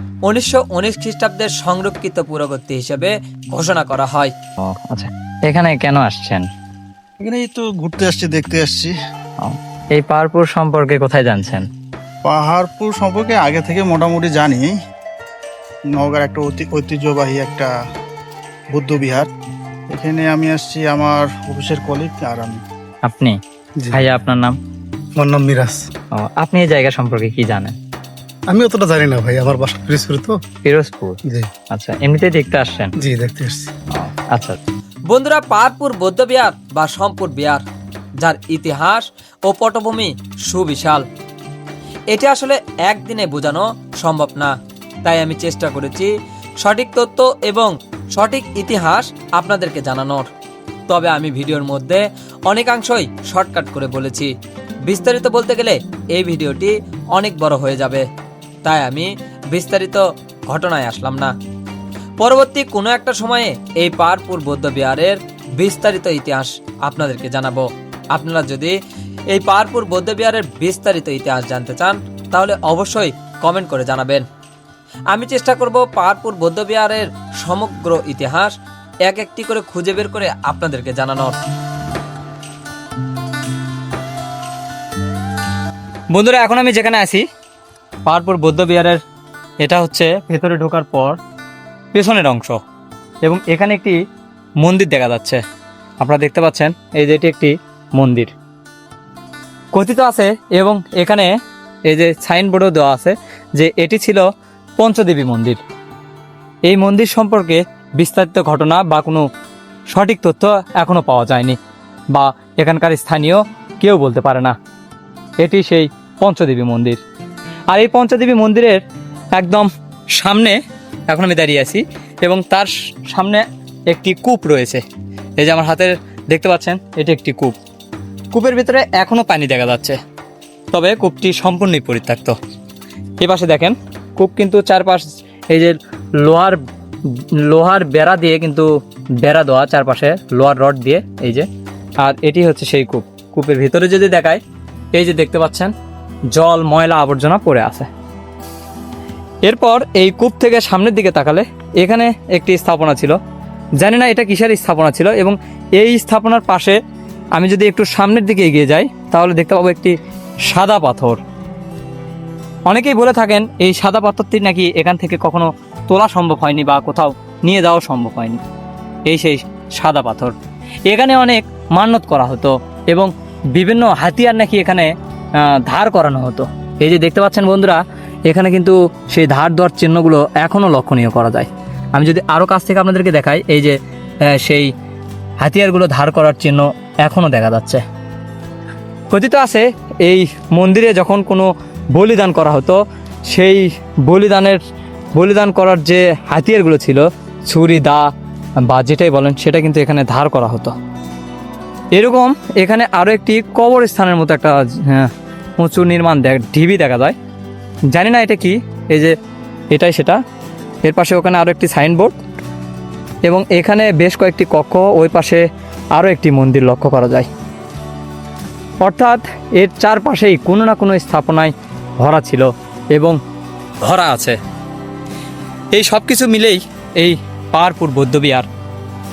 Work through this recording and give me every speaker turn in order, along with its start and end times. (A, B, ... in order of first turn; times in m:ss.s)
0:00.2-0:04.3 A
0:04.6-0:06.4 B
0:07.2-0:08.9 C
0:09.4-0:11.7 B
0:12.2-0:14.8 C
0:15.9-0:17.7 C
0:18.7-0:19.3 C
0:19.9-0:22.6 C
0:23.0-0:23.4 B
0:23.9-0:24.6 B
0:25.2-0:25.8 D
0:26.1-0:27.7 B
0:28.5-0:30.4 D
0:30.6-0:31.2 B
0:31.7-0:32.9 B
0:33.0-0:33.7 D
0:33.9-0:34.6 B
0:35.1-0:37.6 A
0:38.2-0:41.0 A
0:42.1-0:50.3 A
0:50.9-0:54.3 A
0:54.8-0:58.0 A
0:58.6-1:01.3 A
1:02.2-1:08.7 A
1:09.3-1:14.2 A
1:15.1-1:18.5 A
1:19.0-1:21.4 A
1:26.1-1:27.2 B
1:28.0-1:29.0 B
1:29.6-1:31.2 B
1:31.9-1:32.6 B
1:33.2-1:34.0 B
1:34.6-1:35.4 B
1:36.0-1:38.3 B
1:39.7-1:41.3 B
1:41.9-1:44.3 B
1:44.8-1:45.6 B
1:46.7-1:49.2 B
1:49.9-1:51.6 B
1:52.1-1:54.5 B
1:55.4-1:57.0 B
1:57.7-1:58.8 B
1:59.3-2:00.6 B
2:01.1-2:04.8 B
2:05.4-2:07.6 B
2:08.3-2:10.0 B
2:10.7-2:12.3 B
2:13.2-2:18.7 B
2:19.2-2:21.5 B
2:22.0-2:24.4 B
2:24.9-2:25.7 B
2:26.3-2:27.9 B
2:29.4-2:33.2 B
2:33.8-2:36.8 B
2:37.3-2:39.9 B
2:40.5-2:41.2 B
2:42.7-2:48.4 B
2:49.1-2:50.3 B
2:50.9-3:04.7 B
3:05.4-3:07.8 B
3:09.1-3:14.6 B
3:15.2-3:18.0 B
3:18.7-3:20.7 B
3:21.9-3:27.2 B
3:27.9-3:29.1 B
3:29.7-3:30.2 B
3:30.8-3:32.2 B
3:33.2-3:37.3 B
3:38.8-3:43.2 B
3:43.8-3:44.4 B
3:45.7-3:48.5 B